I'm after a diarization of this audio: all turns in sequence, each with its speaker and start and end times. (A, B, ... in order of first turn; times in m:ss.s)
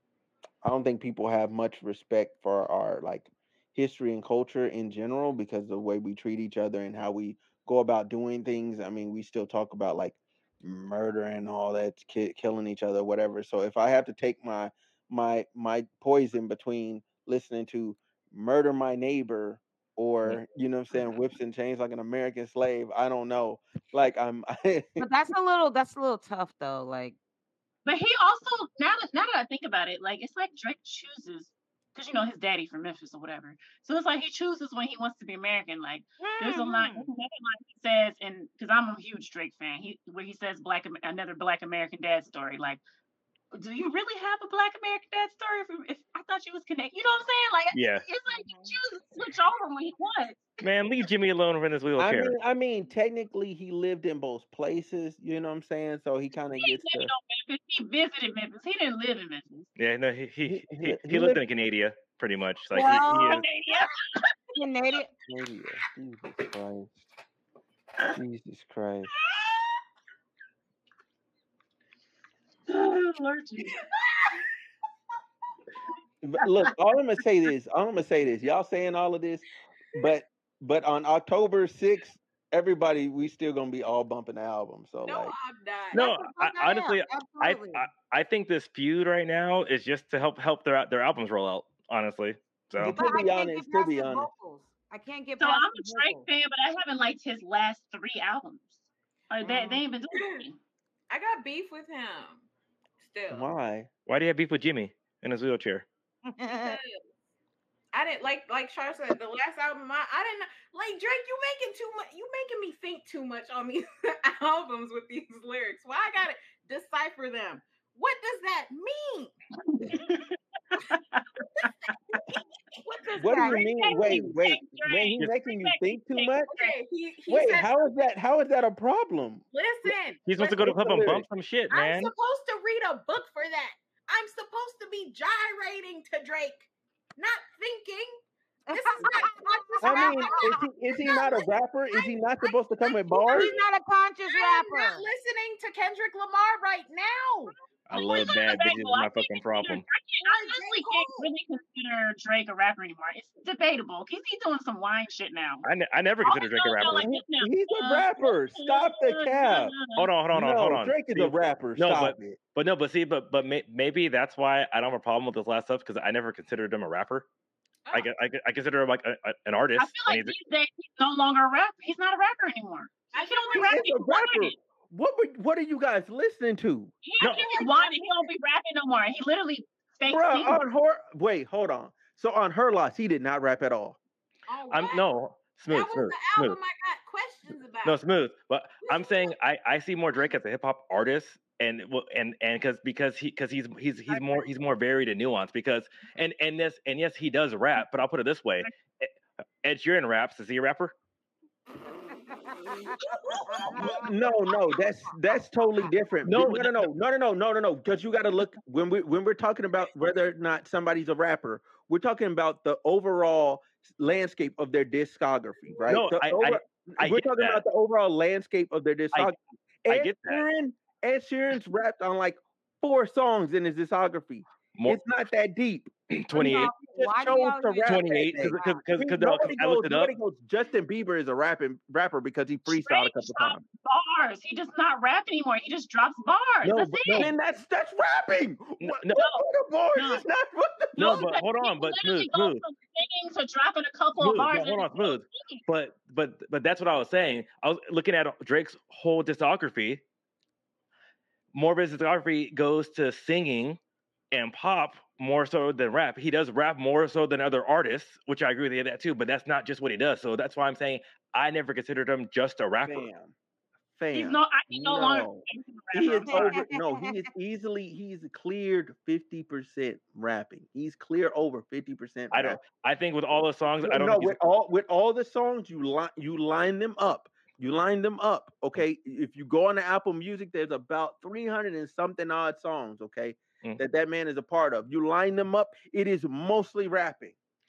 0:00.6-0:25.0 A
0:25.0-0:27.2 B
0:27.8-0:42.8 C
0:36.2-0:37.1 B
0:43.5-0:50.6 C
0:47.7-0:48.0 D
0:48.3-0:48.7 B
0:50.6-0:52.3 D
0:52.0-0:57.1 A
0:56.6-0:59.7 C
0:59.8-1:03.4 D
1:00.4-1:01.4 A
1:02.7-1:03.4 B
1:02.8-1:04.4 C
1:04.5-1:05.1 B
1:05.3-1:07.0 A
1:08.0-1:09.1 A
1:12.7-1:13.8 C
1:13.8-1:14.3 E
1:16.2-1:25.3 A
1:25.0-1:26.1 E
1:25.9-1:33.1 D
1:25.9-1:27.9 B
1:32.8-1:34.3 A
1:32.9-1:36.2 B
1:35.4-1:40.6 C
1:39.4-1:40.4 E
1:41.1-1:42.4 E
1:43.0-1:43.5 E
1:43.3-1:43.9 A
1:44.0-1:45.8 D
1:46.3-1:46.8 B
1:46.5-1:47.0 E
1:47.9-1:59.3 E
1:59.7-2:01.9 C
2:01.6-2:03.7 E
2:03.2-2:06.5 A
2:03.2-2:03.6 B
2:03.7-2:06.8 C
2:06.5-2:07.9 E
2:07.3-2:09.4 A
2:09.5-2:10.7 E
2:10.2-2:12.1 D
2:10.6-2:11.2 A
2:11.7-2:16.6 E
2:17.2-2:23.7 E
2:18.7-2:20.6 B
2:19.8-2:23.5 A
2:23.3-2:25.1 B
2:24.3-2:28.3 E
2:27.9-2:29.8 D
2:28.0-2:35.6 C
2:30.3-2:31.3 E
2:35.6-2:37.1 D
2:36.2-2:40.1 C
2:36.9-2:39.8 A
2:39.9-2:47.3 D
2:40.3-2:42.4 A
2:47.9-2:50.3 D
2:49.8-2:54.5 C
2:53.1-2:53.9 E
2:53.5-2:56.9 A
2:57.0-3:00.6 C
2:57.2-2:57.5 D
2:57.2-2:58.3 E
3:00.0-3:04.0 A
3:04.5-3:05.1 E
3:04.7-3:06.6 D
3:05.7-3:08.0 E
3:07.8-3:20.9 D
3:08.8-3:09.3 E
3:14.1-3:14.4 A
3:22.3-3:24.0 B
3:22.7-3:24.8 E
3:23.7-3:53.6 A
3:26.2-3:26.9 D
3:35.9-3:37.6 D
3:39.1-3:40.4 D
3:46.2-3:46.7 D
3:46.3-3:48.8 B
3:47.8-3:50.1 D
3:52.7-3:57.3 C
3:56.6-4:01.4 A
3:58.8-3:59.3 D
3:59.2-3:59.4 C
3:59.9-4:00.3 C
4:01.0-4:05.6 C
4:01.0-4:02.6 D
4:04.2-4:10.0 D
4:11.5-4:13.8 D
4:14.3-4:23.1 D
4:22.9-4:23.3 A
4:24.0-4:25.4 A
4:24.1-4:26.6 C
4:25.9-4:32.6 A
4:26.3-4:27.3 B
4:32.3-4:34.4 D
4:33.8-4:47.4 A